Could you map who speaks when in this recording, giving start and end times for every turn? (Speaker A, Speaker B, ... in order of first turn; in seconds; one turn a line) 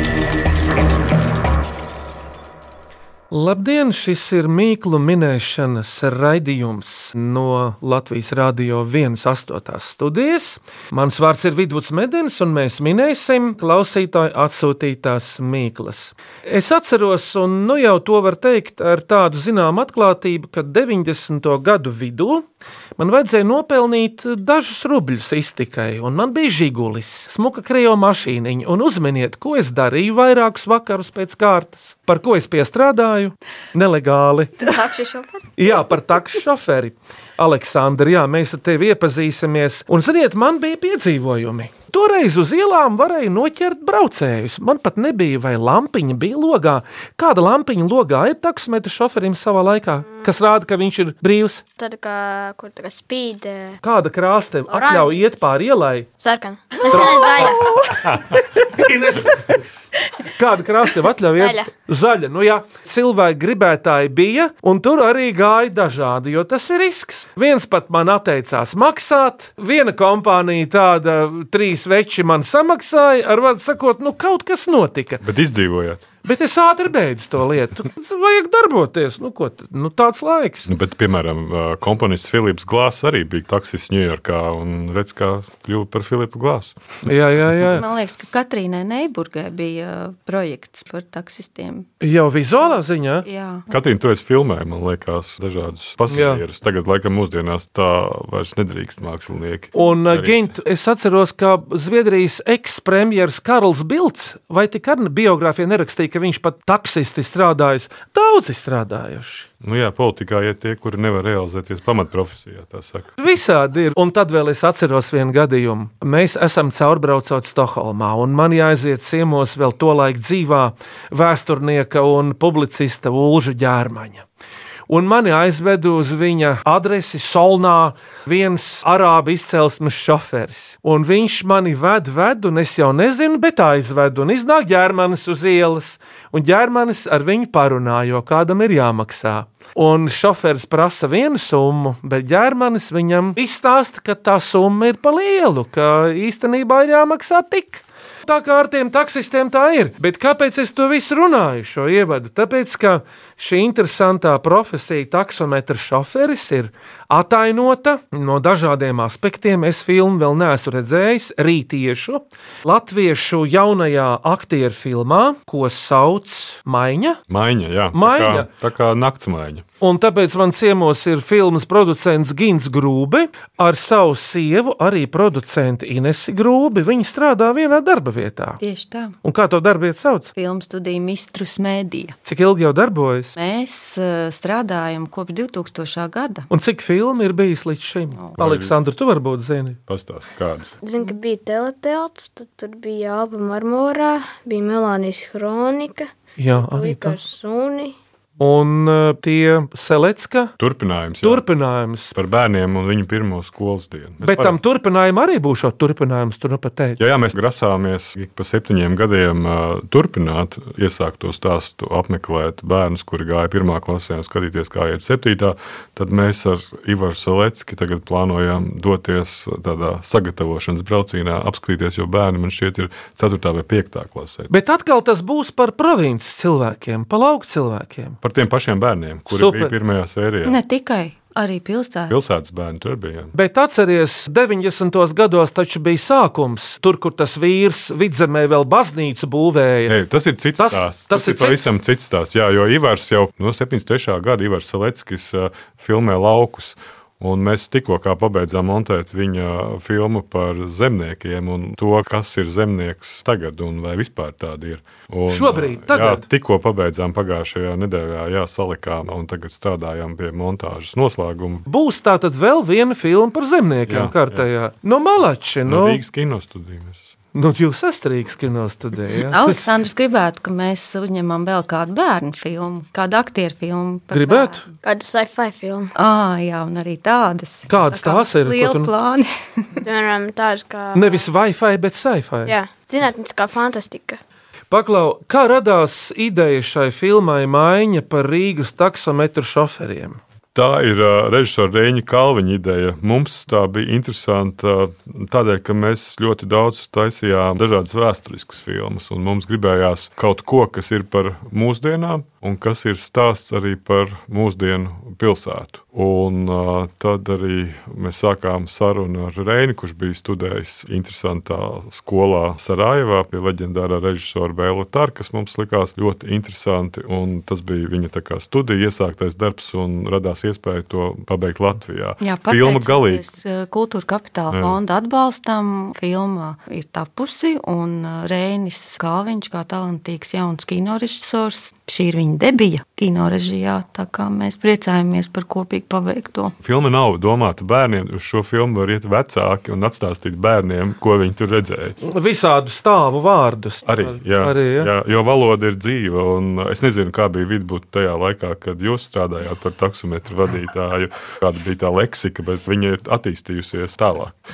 Speaker A: 3.3-22.5
Speaker A: 23.0-34.7
Speaker B: 34.6-35.5
Speaker A: 35.6-51.6
Speaker B: 51.8-53.8
Speaker A: 53.8-56.1
Speaker B: 54.7-55.1
Speaker B: 56.2-57.8
Speaker A: 56.9-57.7
Speaker A: 58.7-59.6
Speaker A: 60.3-75.2
Speaker B: 61.4-61.7
Speaker C: 75.2-76.0
Speaker A: 76.2-80.7
Speaker C: 80.7-86.8
Speaker A: 87.0-87.8
Speaker D: 87.7-91.9
Speaker A: 92.0-93.3
Speaker D: 93.2-93.7
Speaker C: 93.7-100.5
Speaker A: 96.1-96.4
Speaker A: 99.7-109.5
Speaker C: 109.6-113.2
Speaker A: 113.2-124.3
Speaker A: 124.9-167.2
Speaker C: 167.3-169.7
Speaker A: 167.9-168.5
Speaker A: 169.8-178.6
Speaker D: 178.6-179.2
Speaker A: 179.2-180.3
Speaker D: 180.3-182.2
Speaker A: 182.2-183.3
Speaker D: 183.4-186.5
Speaker A: 186.5-189.8
Speaker C: 188.4-188.8
Speaker C: 189.9-190.7
Speaker B: 190.8-198.0
Speaker A: 196.4-197.2
Speaker A: 198.4-200.5
Speaker C: 200.6-201.4
Speaker A: 201.2-202.2
Speaker C: 202.1-204.6
Speaker A: 204.2-207.0
Speaker C: 207.0-224.5
Speaker A: 224.5-228.2
Speaker C: 228.2-230.6
Speaker A: 229.3-229.7
Speaker D: 230.4-232.1
Speaker C: 232.1-233.3
Speaker A: 233.3-239.9
Speaker C: 239.9-261.7
Speaker A: 240.6-241.7
Speaker A: 255.3-256.2
Speaker A: 261.7-266.0
Speaker C: 263.9-264.4
Speaker C: 265.6-267.1
Speaker A: 267.3-269.7
Speaker D: 269.3-274.7
Speaker A: 274.1-274.7
Speaker B: 274.8-275.9
Speaker D: 275.9-279.7
Speaker A: 277.7-278.9
Speaker B: 279.8-281.3
Speaker A: 280.9-282.6
Speaker B: 282.5-284.2
Speaker A: 284.7-290.2
Speaker C: 290.6-323.3
Speaker D: 322.2-336.5
Speaker C: 324.5-324.8
Speaker C: 336.6-342.0
Speaker A: 342.0-344.9
Speaker C: 343.9-354.4